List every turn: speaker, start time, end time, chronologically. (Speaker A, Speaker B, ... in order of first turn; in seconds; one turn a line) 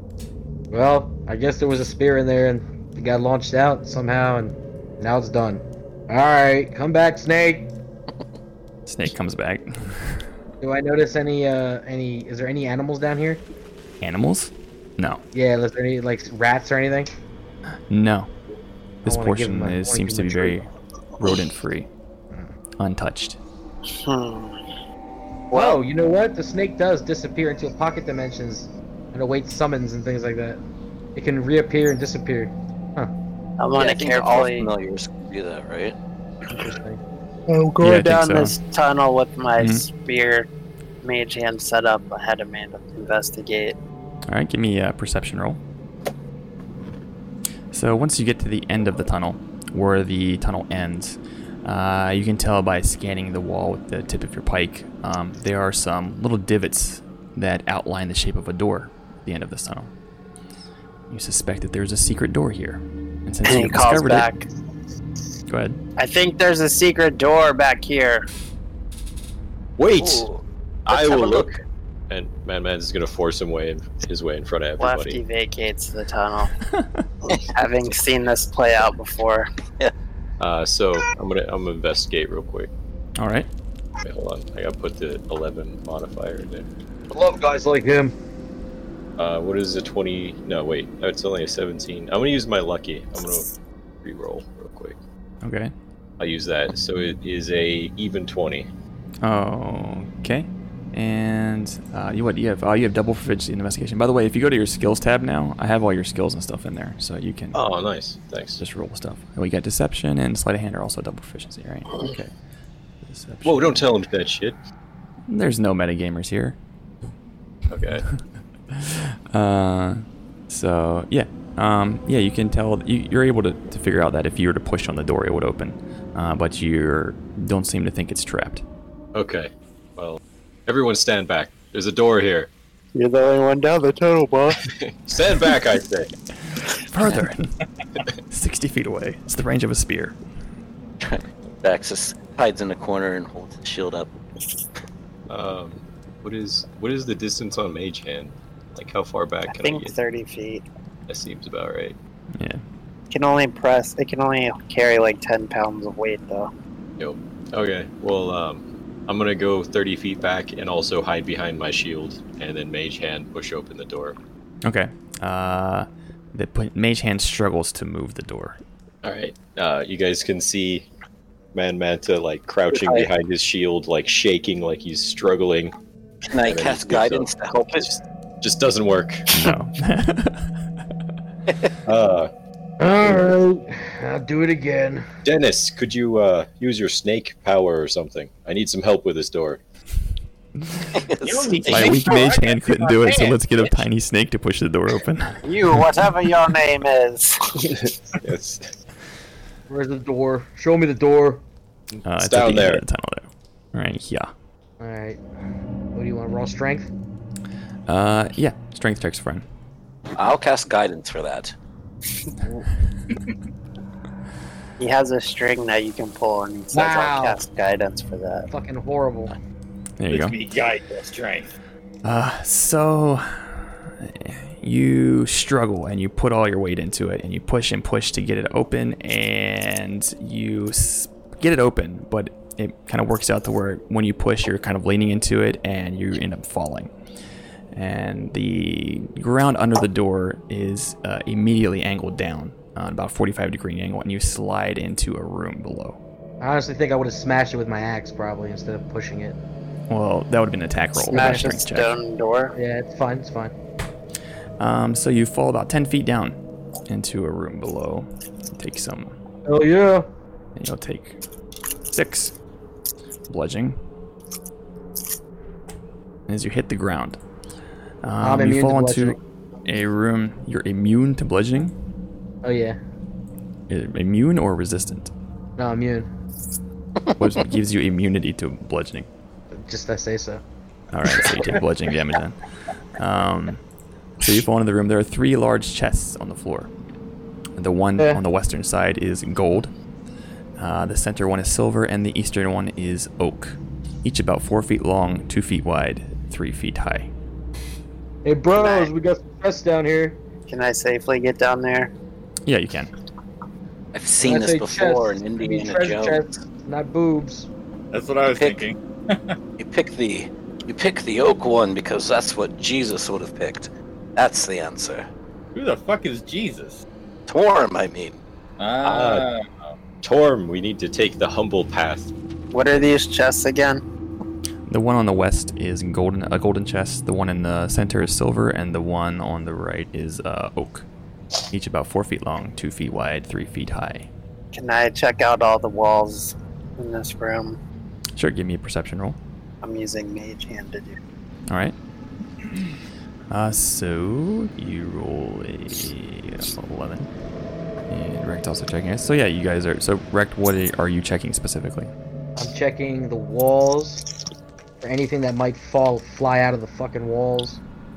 Speaker A: 0.7-7.7
Speaker B: 8.8-10.2
Speaker A: 10.6-13.4
Speaker B: 14.0-15.2
Speaker A: 15.3-17.1
Speaker B: 17.9-18.3
Speaker B: 19.0-21.9
Speaker A: 19.0-20.6
Speaker B: 22.8-23.4
Speaker C: 23.9-24.6
Speaker C: 25.5-25.8
Speaker A: 25.5-30.6
Speaker A: 31.1-33.1
Speaker C: 33.6-34.7
Speaker D: 33.8-36.0
Speaker A: 36.6-37.0
Speaker C: 37.5-40.5
Speaker B: 37.8-38.5
Speaker B: 39.6-39.8
Speaker C: 41.0-43.8
Speaker B: 44.3-45.6
Speaker B: 47.7-59.9
Speaker B: 61.1-64.4
Speaker C: 63.5-64.4
Speaker B: 65.5-65.8
Speaker C: 66.0-68.3
Speaker E: 69.8-70.3
Speaker D: 70.0-70.4
Speaker E: 70.8-71.6
Speaker E: 72.1-75.2
Speaker C: 74.8-76.5
Speaker C: 77.2-79.5
Speaker E: 80.4-82.7
Speaker B: 83.2-83.5
Speaker E: 84.0-86.7
Speaker A: 87.1-88.1
Speaker E: 89.2-93.5
Speaker E: 94.0-95.0
Speaker B: 95.4-95.7
Speaker E: 96.2-98.7
Speaker B: 99.2-107.6
Speaker E: 107.5-108.6
Speaker B: 108.6-112.3
Speaker B: 113.0-113.8
Speaker E: 113.4-114.6
Speaker B: 115.3-116.6
Speaker E: 117.7-118.0
Speaker B: 118.7-128.6
Speaker E: 129.1-132.5
Speaker C: 132.9-134.7
Speaker E: 134.7-136.1
Speaker B: 136.9-137.6
Speaker B: 138.3-140.2
Speaker D: 141.0-144.1
Speaker E: 145.3-150.0
Speaker C: 149.5-150.7
Speaker E: 151.1-151.9
Speaker C: 153.1-156.5
Speaker E: 157.0-164.2
Speaker B: 164.6-168.6
Speaker E: 169.0-170.9
Speaker E: 171.5-175.7
Speaker D: 172.7-173.1
Speaker D: 176.3-178.0
Speaker E: 176.4-179.3
Speaker B: 179.3-180.5
Speaker E: 181.8-182.3
Speaker A: 182.8-185.1
Speaker E: 185.2-189.6
Speaker B: 190.7-190.9
Speaker D: 191.0-192.2
Speaker F: 191.2-193.4
Speaker B: 191.7-195.4
Speaker C: 195.4-197.7
Speaker E: 197.8-198.7
Speaker A: 199.7-201.4
Speaker B: 202.0-204.3
Speaker E: 202.2-202.8
Speaker A: 204.8-205.2
Speaker A: 205.9-206.9
Speaker B: 207.9-209.4
Speaker D: 210.2-211.5
Speaker C: 214.8-218.5
Speaker A: 216.7-217.4
Speaker A: 218.5-219.3
Speaker B: 220.0-220.4
Speaker F: 220.1-221.5
Speaker B: 222.0-236.9
Speaker B: 237.7-246.0
Speaker A: 246.4-249.4
Speaker B: 249.9-251.9
Speaker A: 251.1-251.5
Speaker C: 251.1-252.5
Speaker A: 252.6-253.5
Speaker B: 254.6-256.4
Speaker B: 256.9-259.1
Speaker A: 259.4-260.1
Speaker B: 260.6-261.2
Speaker B: 261.9-262.3
Speaker B: 263.3-263.8
Speaker B: 266.3-267.2
Speaker B: 268.0-271.7
Speaker A: 268.2-269.2
Speaker A: 272.4-272.8
Speaker B: 273.7-275.1
Speaker A: 275.6-276.1
Speaker B: 277.2-279.1
Speaker A: 279.6-280.4
Speaker B: 280.9-282.4
Speaker A: 281.2-281.6
Speaker B: 282.9-283.6
Speaker B: 284.2-286.7
Speaker B: 287.6-289.7
Speaker B: 290.6-297.1
Speaker A: 298.2-300.2
Speaker C: 298.6-298.9
Speaker C: 300.5-301.9
Speaker B: 302.4-302.9
Speaker D: 303.9-306.3
Speaker A: 304.2-307.5
Speaker F: 307.9-309.3
Speaker D: 308.3-308.7
Speaker D: 309.6-315.1
Speaker F: 315.5-316.8
Speaker D: 317.3-318.2
Speaker F: 318.6-319.4
Speaker E: 318.8-319.3
Speaker E: 320.0-322.1
Speaker C: 322.5-323.8
Speaker B: 324.7-330.9
Speaker B: 331.5-334.1
Speaker C: 334.5-337.6
Speaker B: 338.1-339.2
Speaker C: 339.6-341.0
Speaker B: 341.5-341.8
Speaker B: 343.3-347.1
Speaker B: 347.9-351.9
Speaker A: 352.4-354.1
Speaker A: 354.8-357.6